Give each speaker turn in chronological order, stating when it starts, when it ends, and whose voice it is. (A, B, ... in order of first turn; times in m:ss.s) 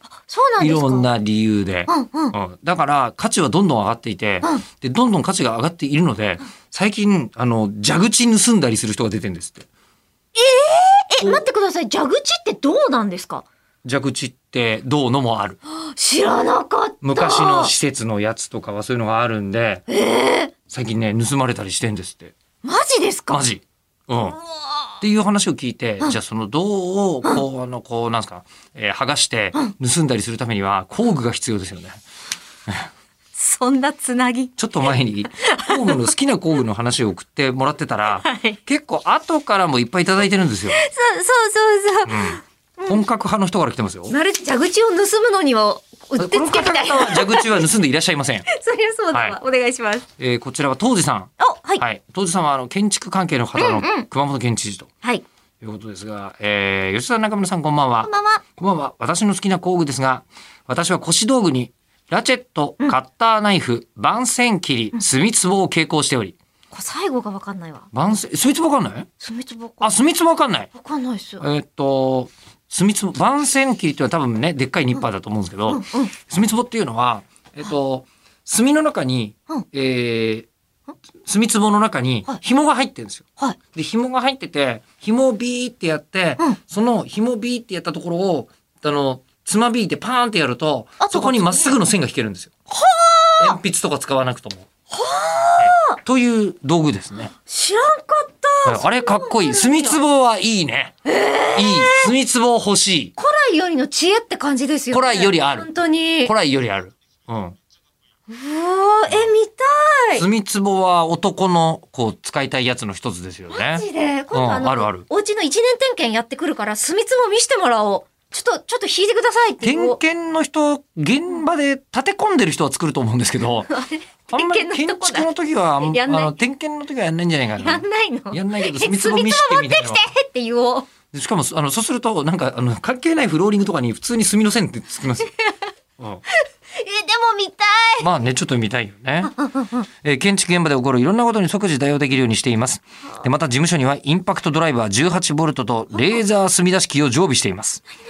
0:00.3-0:01.1 A
0:00.6-0:09.7 B
0:01.9-0:02.4 A
0:10.4-0:13.4 A
0:13.8-0:15.6 B
0:15.7-0:17.7 A
0:17.0-0:19.8 B
0:19.9-0:20.5 A
0:20.7-0:22.4 B
0:22.6-0:23.4 A
0:23.3-0:24.4 B
0:25.0-0:32.0 B
0:33.4-0:36.1 A
0:34.6-0:40.8 B
0:38.2-0:38.6 A
0:40.7-0:43.0 A
0:42.0-0:44.2 B
0:44.1-0:47.7 A
0:46.2-0:48.5 B
0:48.5-0:50.1 A
0:49.1-0:49.4 B
0:50.2-0:54.9 B
0:51.4-0:51.8 A
0:53.6-0:54.1 A
0:55.6-1:06.4 B
0:58.0-0:58.4 A
1:06.7-1:07.9 A
1:07.9-1:09.1 B
1:09.2-1:10.0 A
1:09.8-1:10.7 B
1:10.8-1:11.4 A
1:11.4-1:20.5 B
1:15.7-1:16.1 A
1:21.2-1:32.5 B
1:31.0-1:31.8 A
1:32.7-1:33.6 A
1:33.4-1:34.7 B
1:34.9-1:36.0 A
1:35.6-1:37.3 B
1:37.5-1:40.0 A
1:38.6-1:41.0 B
1:41.0-1:42.1 A
1:41.5-1:43.1 B
1:43.2-1:46.3 A
1:44.9-1:45.7 B
1:46.2-1:47.6 B
1:48.3-1:50.3 A
1:50.2-1:55.1 B
1:53.5-2:00.0 A
1:59.6-2:03.7 B
2:03.6-2:05.3 A
2:04.3-2:10.1 B
2:05.8-2:06.3 A
2:07.6-2:10.9 A
2:11.1-2:15.3 B
2:16.0-2:16.2 B
2:16.7-2:18.1 A
2:18.0-2:19.4 B
2:19.3-2:19.9 A
2:20.0-2:27.8 B
2:26.0-2:26.2 A